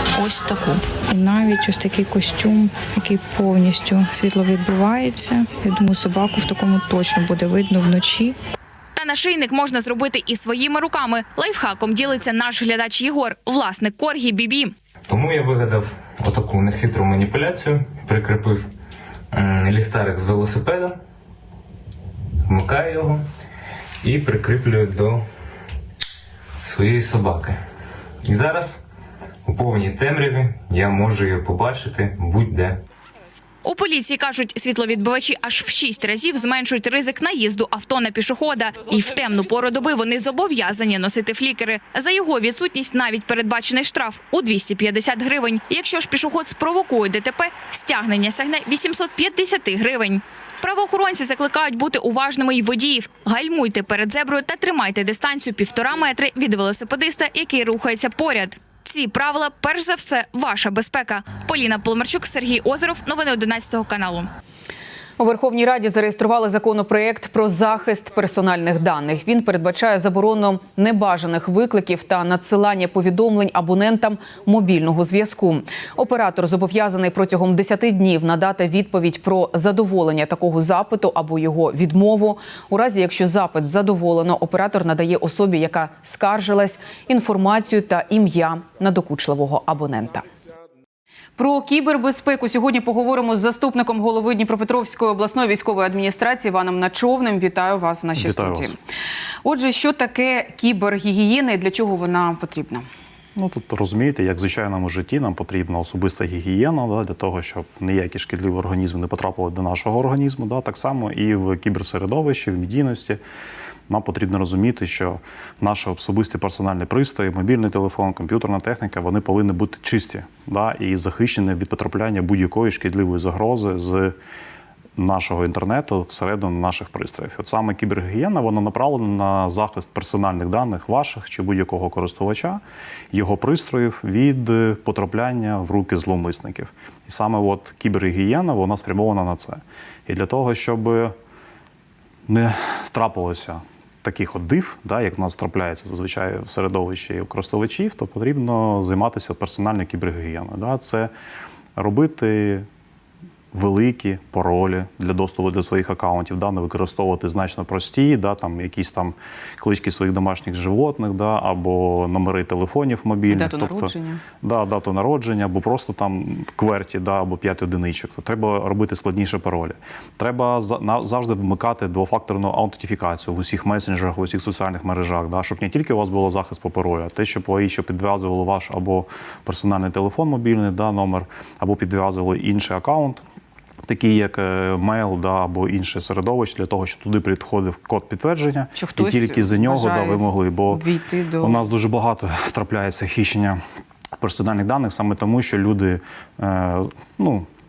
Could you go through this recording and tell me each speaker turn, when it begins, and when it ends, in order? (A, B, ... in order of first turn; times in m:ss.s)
0:00.2-0:08.4 A
0:09.0-0:14.7 B
0:15.1-0:18.7 C
0:19.3-0:21.0 C
0:22.5-0:23.2 C
0:24.0-0:25.3 C
0:26.6-0:27.6 C
0:28.2-0:28.8 C
0:29.5-0:32.8 C
0:33.6-1:04.3 B
1:05.2-1:30.2 D
1:31.4-1:38.8 D
1:38.2-1:38.7 E
1:39.4-1:42.9 D
1:43.4-1:53.2 E
1:53.9-2:04.2 E
2:05.0-2:12.6 E
2:13.1-2:21.2 E
2:22.3-2:31.1 E
2:31.8-2:32.7 E
2:33.5-3:03.2 E
2:43.3-2:44.2 D
3:03.9-3:10.8 E
3:08.8-3:11.6 D
3:11.4-3:13.6 E
3:14.2-3:17.5 E